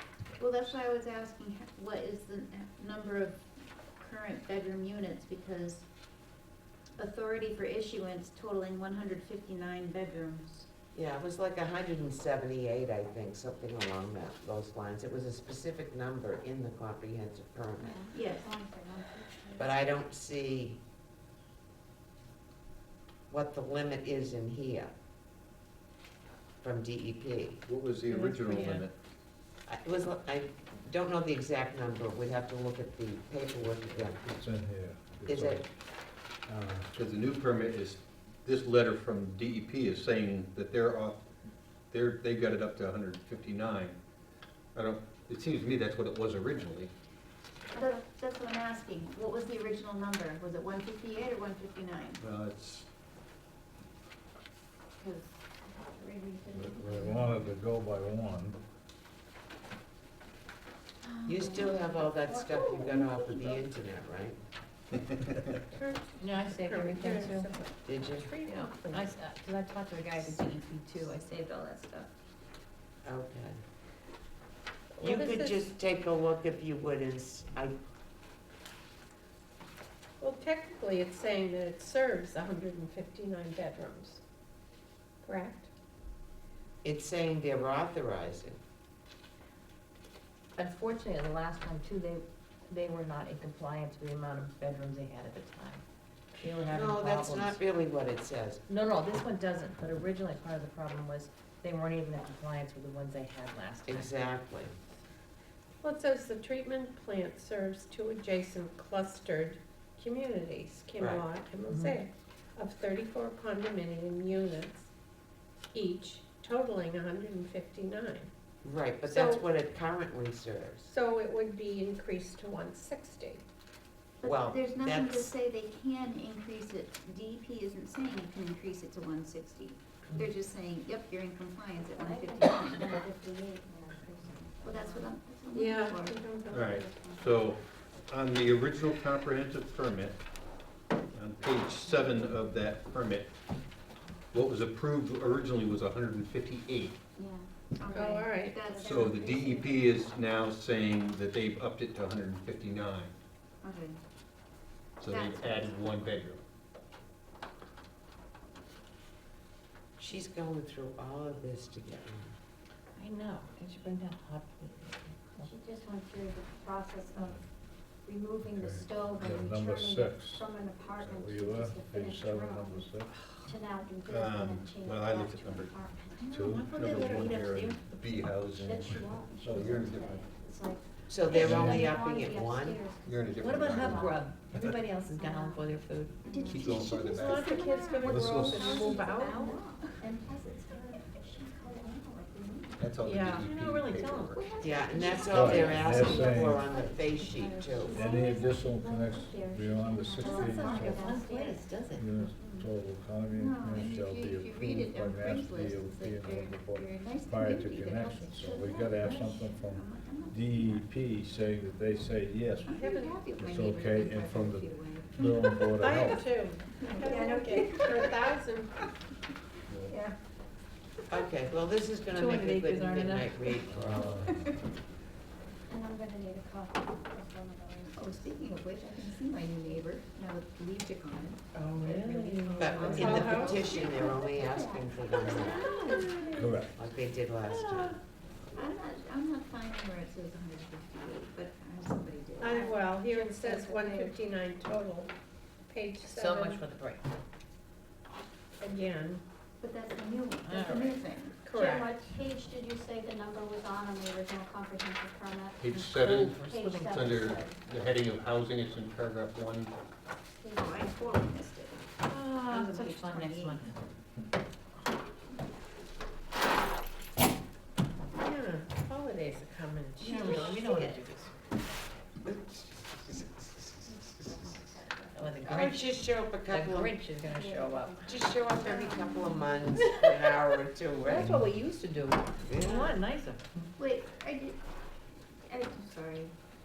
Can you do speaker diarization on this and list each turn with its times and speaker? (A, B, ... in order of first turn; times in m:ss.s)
0:00.4-0:03.4 A
0:04.0-0:05.8 A
0:07.0-0:10.7 A
0:10.9-0:18.1 B
0:17.8-0:19.9 C
0:18.1-0:18.5 A
0:19.6-0:20.8 B
0:23.3-0:24.9 B
0:26.6-0:27.6 B
0:27.6-0:28.9 D
0:28.1-0:28.8 E
0:28.4-0:28.9 F
0:29.7-0:34.3 B
0:34.0-0:35.7 G
0:35.3-0:35.6 B
0:36.5-0:36.9 G
0:36.9-0:41.2 D
0:41.9-0:44.0 D
0:44.8-0:46.9 D
0:47.7-0:48.0 C
0:47.7-0:52.2 A
0:52.2-0:52.9 D
0:55.0-0:57.5 A
0:56.5-0:58.6 G
1:01.0-1:03.6 A
1:01.2-1:04.4 B
1:02.3-1:03.6 C
1:04.9-1:05.6 D
1:05.7-1:09.1 E
1:06.2-1:07.6 F
1:07.9-1:08.3 B
1:08.4-1:11.3 F
1:09.9-1:12.1 A
1:13.0-1:13.6 B
1:14.9-1:15.7 E
1:15.0-1:17.8 B
1:20.2-1:24.2 E
1:25.2-1:25.7 E
1:26.8-1:28.6 B
1:30.6-1:35.8 F
1:36.4-1:37.6 F
1:36.6-1:38.6 B
1:38.7-1:44.3 F
1:43.9-1:44.8 B
1:45.8-1:54.9 E
1:51.0-1:51.2 B
1:51.7-1:52.0 F
1:55.7-1:58.3 E
1:58.6-2:00.9 B
1:59.1-1:59.4 E
2:00.9-2:03.4 E
2:04.2-2:13.1 A
2:04.2-2:05.4 B
2:11.7-2:15.2 C
2:14.6-2:16.2 A
2:15.5-2:16.7 E
2:16.0-2:17.5 C
2:16.5-2:20.2 D
2:21.1-2:23.3 D
2:24.3-2:27.0 D
2:27.2-2:29.5 A
2:27.8-2:28.1 C
2:27.9-2:28.7 E
2:28.7-2:29.8 C
2:28.7-2:33.1 D
2:33.6-2:34.0 A
2:35.0-2:36.4 D
2:35.0-2:36.0 A
2:40.0-2:42.4 B
2:43.0-2:45.5 F
2:45.4-2:47.5 C
2:48.0-2:52.9 C
2:48.5-2:53.1 G
2:53.4-2:57.1 C
2:54.1-2:55.8 D
2:56.2-2:57.8 F
2:56.3-2:56.7 G
2:56.7-3:00.2 D
2:58.2-3:04.5 C
2:59.4-2:59.8 G
3:01.1-3:02.8 B
3:01.3-3:01.8 D
3:01.4-3:02.0 F
3:01.4-3:01.8 G
3:03.0-3:04.7 D
3:03.4-3:06.2 F
3:05.1-3:05.6 C
3:06.2-3:06.7 A
3:06.2-3:07.4 C
3:06.5-3:07.5 D
3:07.2-3:09.3 E
3:07.4-3:10.0 A
3:08.1-3:08.5 G
3:08.1-3:08.5 D
3:08.3-3:12.9 C
3:08.7-3:09.6 F
3:12.8-3:14.8 D
3:13.0-3:13.4 E
3:13.2-3:14.4 F
3:14.3-3:16.0 A
3:14.6-3:18.0 B
3:15.3-3:16.7 G
3:15.3-3:21.7 C
3:17.9-3:21.1 G
3:20.2-3:22.2 F
3:20.2-3:20.5 A
3:22.0-3:32.8 G
3:23.3-3:30.9 A
3:32.6-3:35.7 A
3:32.7-3:33.2 E
3:33.4-3:36.2 G
3:35.7-3:38.7 E
3:36.7-3:38.2 A
3:37.0-3:37.8 C
3:39.7-3:39.9 G
3:41.1-3:44.3 B
3:42.1-3:44.1 F
3:43.7-3:44.6 G
3:44.3-3:44.5 A
3:45.7-3:49.0 C
3:47.9-3:54.7 A
3:51.5-3:53.7 F
3:52.6-3:55.7 B
3:53.0-3:53.5 E
3:53.7-3:54.9 C
3:55.2-3:56.7 E
3:55.2-3:56.3 A
3:56.4-3:56.7 G
3:56.7-3:58.0 B
3:57.5-3:57.9 E
3:58.6-4:04.2 A
4:02.4-4:05.1 E
4:05.7-4:06.6 E
4:06.0-4:07.1 F
4:08.6-4:09.2 E
4:09.6-4:11.4 A
4:10.4-4:11.1 F
4:11.4-4:11.9 E
4:11.5-4:17.6 C
4:15.6-4:19.7 D
4:15.7-4:16.9 F
4:20.4-4:21.3 C
4:20.6-4:21.9 A
4:22.0-4:23.8 F
4:22.4-4:23.7 A
4:28.2-4:30.7 E
4:30.0-4:31.3 F
4:30.0-4:31.1 A
4:32.2-4:34.5 B
4:33.8-4:35.7 C
4:35.1-4:35.9 F
4:35.4-4:37.0 B
4:36.5-4:38.1 F
4:37.1-4:39.8 C
4:38.0-4:41.4 B
4:39.8-4:40.1 F
4:41.0-4:43.7 F
4:42.5-4:43.0 B
4:43.8-4:44.6 A
4:45.5-4:46.3 A